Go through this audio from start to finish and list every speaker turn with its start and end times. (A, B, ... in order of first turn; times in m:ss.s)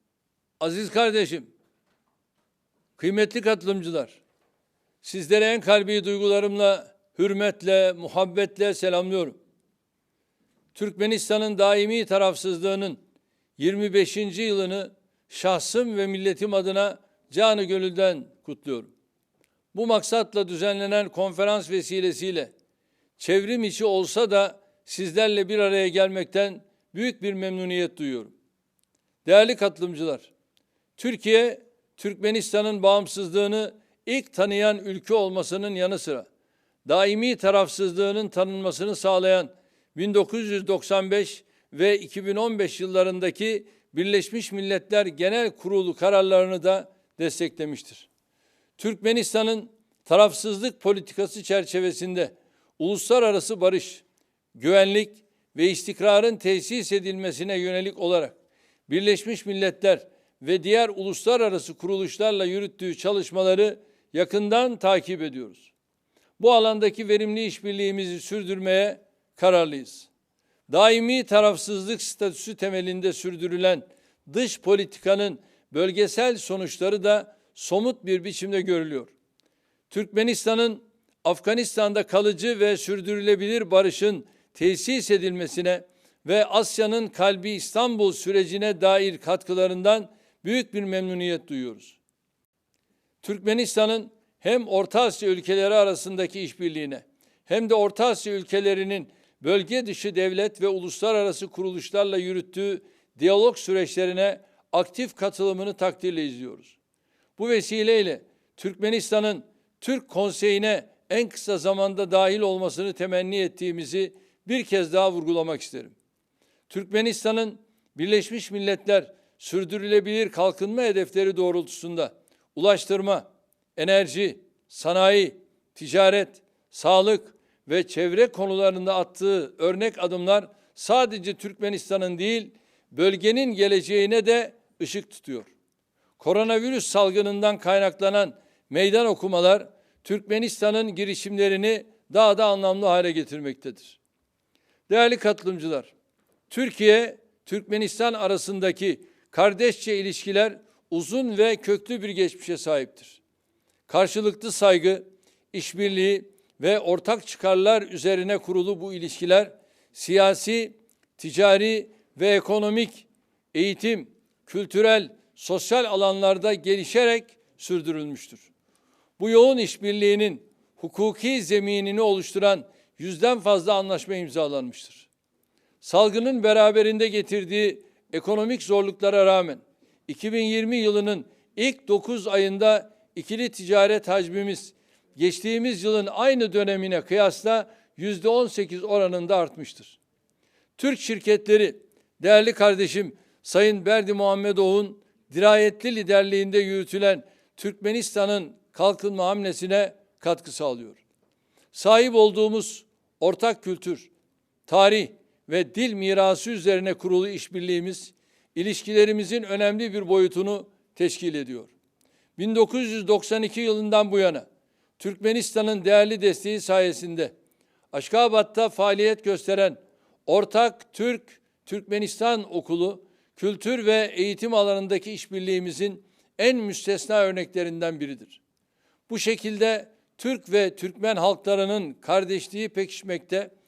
0:00.6-0:01.5 A
0:03.0-0:04.2 A
0:05.0-0:09.4 A
0:10.7-0:13.0 A
0:13.6-0:18.9 A
0:19.7-0:22.5 A
0:23.2-0:28.3 A
0:29.2-0:30.3 A
0:31.0-0:36.3 A
0:36.8-0:48.1 A
0:48.8-0:54.0 A
0:54.5-0:58.3 A
0:58.9-1:05.7 A
1:06.4-1:10.1 A
1:10.7-1:19.1 A
1:19.9-1:32.0 A
1:33.2-1:46.8 A
1:47.4-1:55.9 A
1:56.7-2:03.2 A
2:03.8-2:15.5 A
2:16.2-2:24.0 A
2:24.9-2:25.9 A
2:26.5-2:33.2 A
2:33.9-2:48.5 A
2:49.2-2:55.1 A
2:55.8-3:10.0 A
3:10.8-3:21.0 A
3:21.7-3:24.1 A
3:24.7-3:31.7 A
3:32.4-3:34.4 A
3:35.0-3:37.3 A
3:37.9-3:48.4 A
3:49.1-3:53.5 A